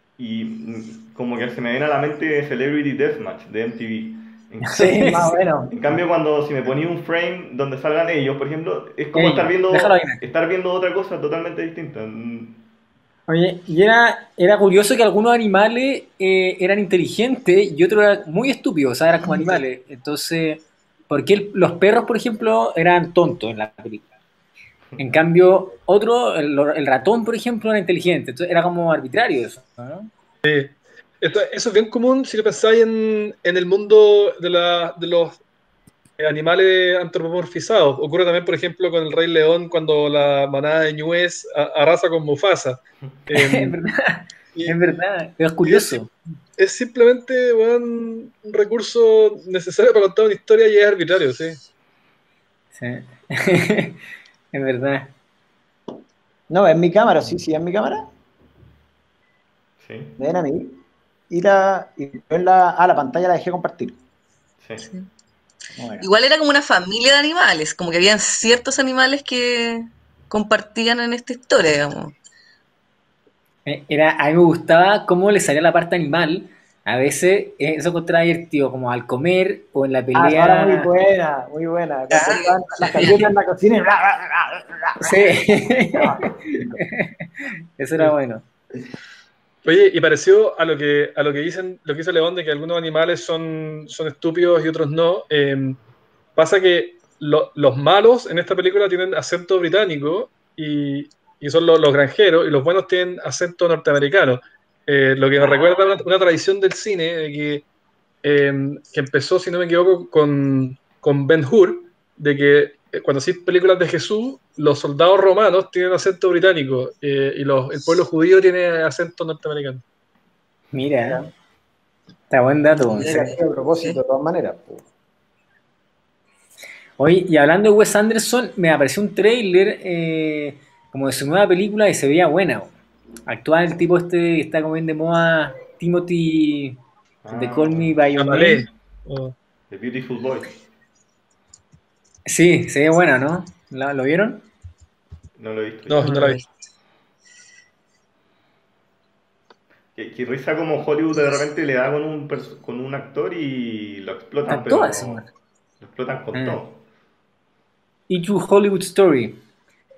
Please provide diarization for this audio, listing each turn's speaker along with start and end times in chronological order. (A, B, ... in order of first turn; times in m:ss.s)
0:00.2-0:05.0 A
0:04.7-0:05.3 B
0:04.8-0:05.7 C
0:05.7-0:12.6 A
0:09.2-0:10.2 B
0:13.3-0:24.1 B
0:25.0-0:30.1 B
0:30.4-0:35.4 D
0:36.2-0:43.8 D
0:43.3-0:46.1 B
0:45.6-0:46.0 D
0:46.6-0:51.6 D
0:52.7-0:54.0 B
0:54.5-0:55.1 B
0:56.5-0:58.0 C
0:59.8-1:00.2 A
1:00.2-1:00.8 C
1:01.3-1:04.0 C
1:04.6-1:04.9 A
1:05.8-1:06.1 C
1:06.0-1:12.1 E
1:13.7-1:20.9 B
1:20.1-1:25.4 C
1:22.1-1:23.2 E
1:22.1-1:22.4 B
1:23.0-1:23.3 B
1:25.0-1:28.4 B
1:25.9-1:26.8 C
1:29.6-1:35.8 D
1:36.4-1:47.7 D
1:48.2-1:59.8 D
2:00.7-2:01.2 B
2:01.0-2:01.3 C
2:02.3-2:03.4 B
2:03.0-2:04.9 C
2:03.0-2:03.3 E
2:07.0-2:12.8 B
2:13.3-2:16.8 B
2:17.2-2:18.0 A
2:17.3-2:18.7 B
2:18.2-2:19.3 D
2:19.7-2:20.6 A
2:22.3-2:24.5 B
2:25.4-2:26.3 A
2:25.9-2:26.4 D
2:26.0-2:26.4 B
2:30.0-2:35.2 A
2:34.5-2:35.3 B
2:35.8-2:36.8 A
2:36.3-2:36.6 B
2:38.1-2:39.4 B